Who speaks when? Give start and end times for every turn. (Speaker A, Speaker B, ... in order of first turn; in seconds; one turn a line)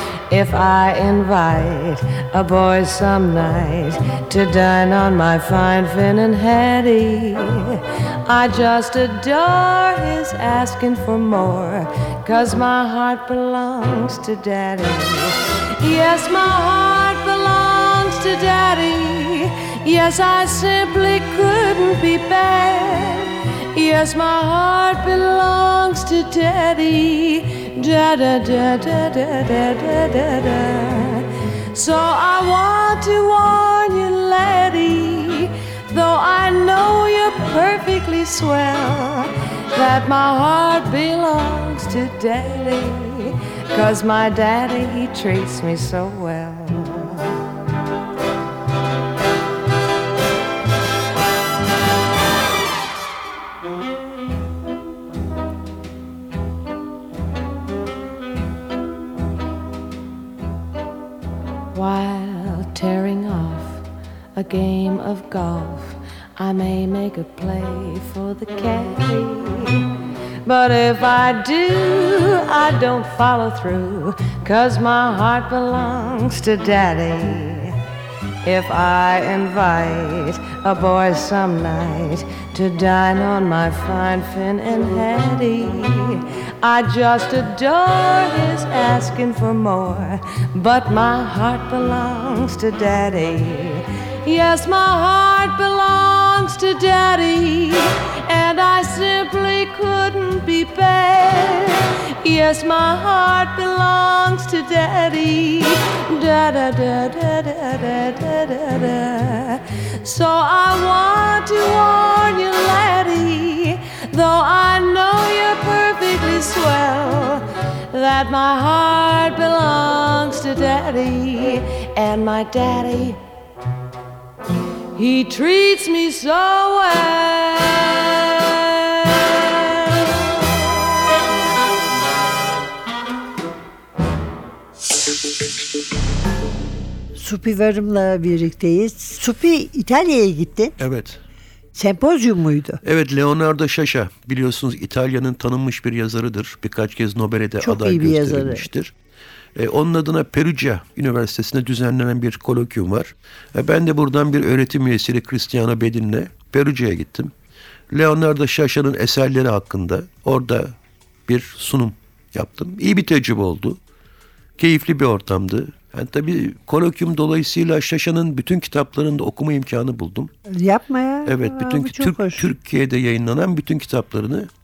Speaker A: 0.3-47.4
Speaker A: 61.7-69.9
Speaker A: 70.5-77.8
Speaker A: 78.4-123.2
Speaker A: 125.0-130.6
Speaker B: 137.2-140.8
Speaker C: 140.8-141.2
Speaker B: 141.7-142.8
Speaker C: 142.8-148.9
Speaker B: 147.6-148.7
Speaker C: 149.6-157.3
Speaker C: 157.9-163.8
Speaker C: 164.6-170.3
Speaker B: 170.5-172.5
Speaker C: 171.3-174.5